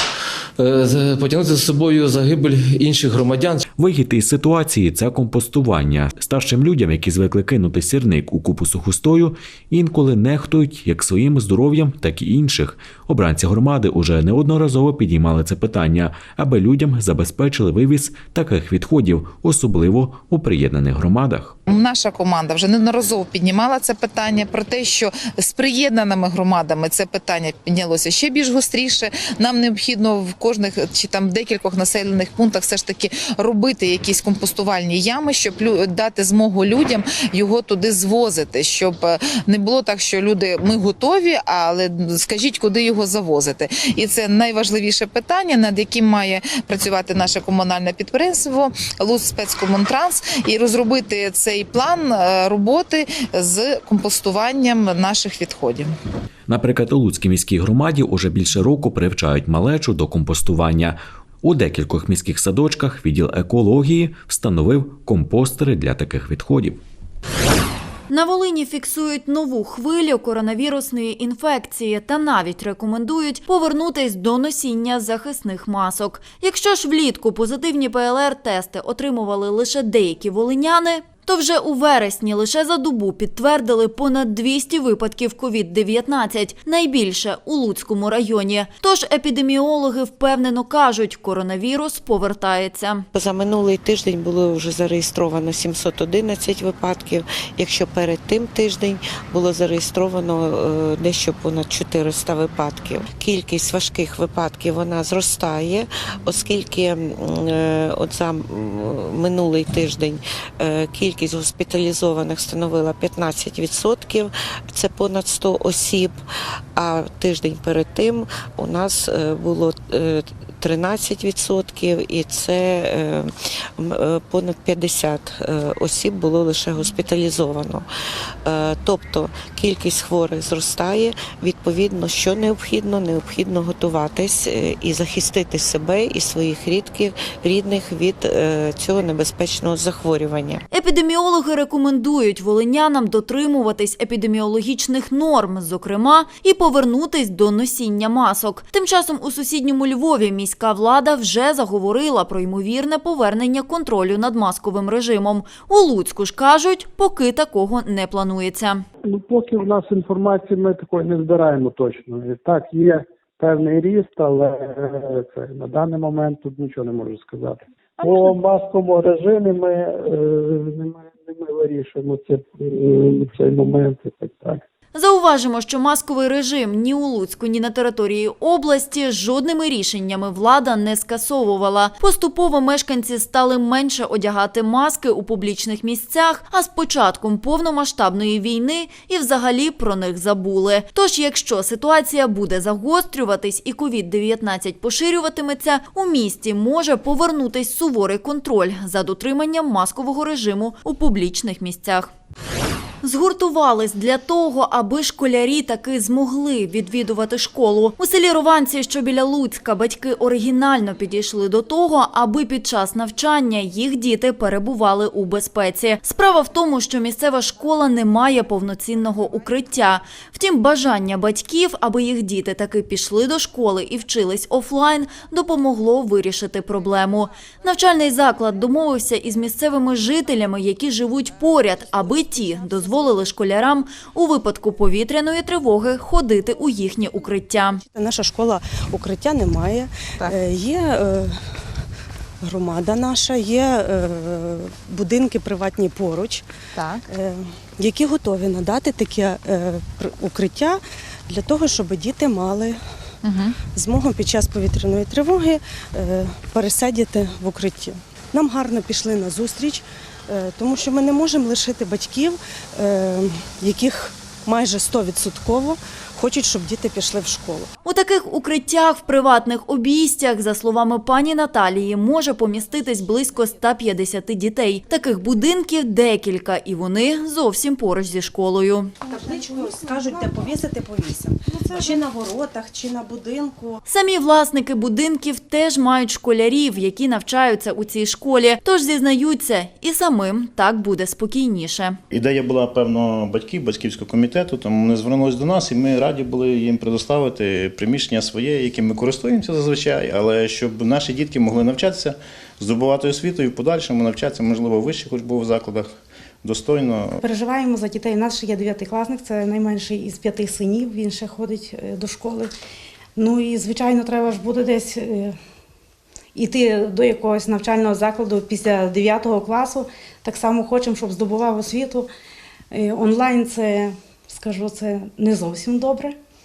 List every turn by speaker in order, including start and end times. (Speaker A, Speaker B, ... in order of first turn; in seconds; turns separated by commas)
Speaker A: 0.6-3.6, Speaker B: 3.8-21.6, Speaker C: 21.7-55.9, Speaker B: 56.5-66.8, Speaker D: 68.1-93.1, Speaker E: 93.1-116.2, Speaker E: 116.8-127.9, Speaker E: 128.4-140.6, Speaker D: 140.7-158.9, Speaker F: 159.1-174.6, Speaker D: 174.9-202.1, Speaker D: 203.0-237.8, Speaker G: 237.8-241.6, Speaker G: 242.4-246.5, Speaker G: 247.1-252.8, Speaker G: 253.8-267.7, Speaker D: 267.8-278.9, Speaker G: 279.0-283.8, Speaker D: 283.9-292.0, Speaker H: 292.1-307.2, Speaker I: 307.2-312.5, Speaker I: 313.2-315.4, Speaker I: 316.4-322.1, Speaker I: 322.7-326.1